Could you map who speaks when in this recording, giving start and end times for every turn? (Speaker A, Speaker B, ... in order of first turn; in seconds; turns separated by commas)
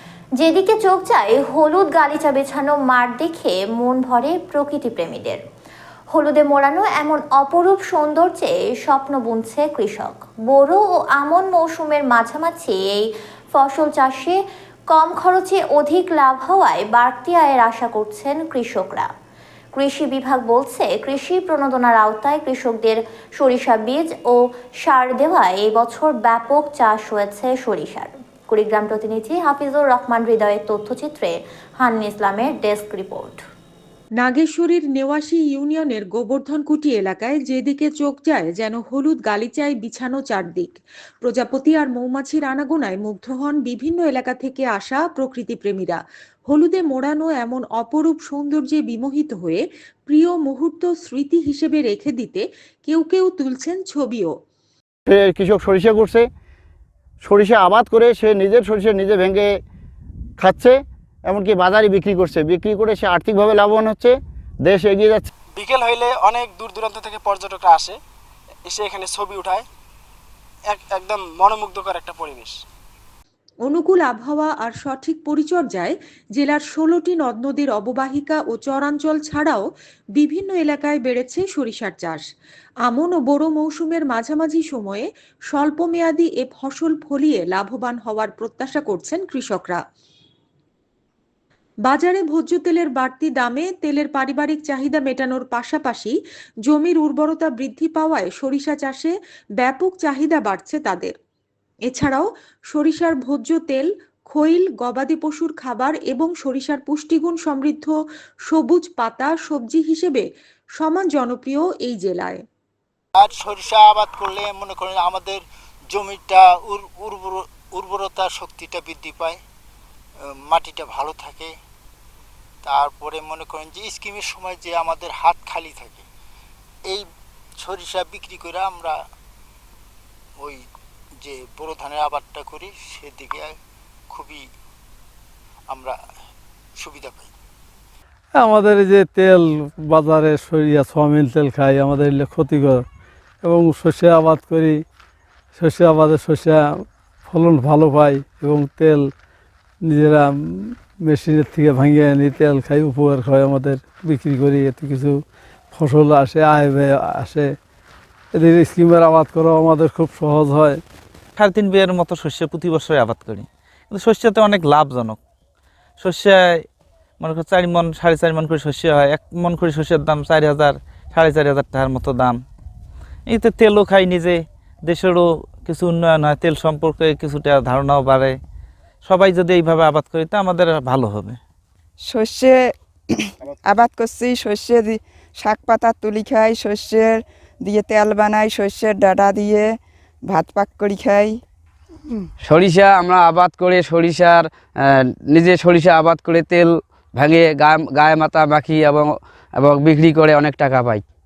Speaker A: 0.4-5.4, Speaker A: 6.1-14.4, Speaker A: 14.9-19.1, Speaker A: 19.8-33.4, Speaker B: 34.2-54.4, Speaker C: 55.1-56.2, Speaker C: 57.2-59.5, Speaker C: 60.4-65.3, Speaker D: 65.6-68.0, Speaker D: 68.7-69.7, Speaker D: 70.7-72.6, Speaker B: 73.6-82.2, Speaker B: 82.8-89.8, Speaker B: 91.8-101.2, Speaker B: 101.9-112.4, Speaker E: 113.2-115.4, Speaker E: 115.9-119.4, Speaker E: 120.5-121.5, Speaker E: 122.6-126.0, Speaker E: 127.6-129.0, Speaker E: 131.2-133.6, Speaker E: 134.1-134.4, Speaker E: 136.8-137.3, Speaker F: 138.3-142.9, Speaker F: 143.4-144.8, Speaker F: 145.6-149.1, Speaker F: 149.8-157.6, Speaker F: 158.3-160.8, Speaker G: 161.4-165.2, Speaker G: 166.0-166.6, Speaker G: 167.2-172.4, Speaker G: 173.3-178.4, Speaker G: 179.1-181.4, Speaker H: 182.0-189.7, Speaker H: 190.3-191.4, Speaker I: 192.4-201.0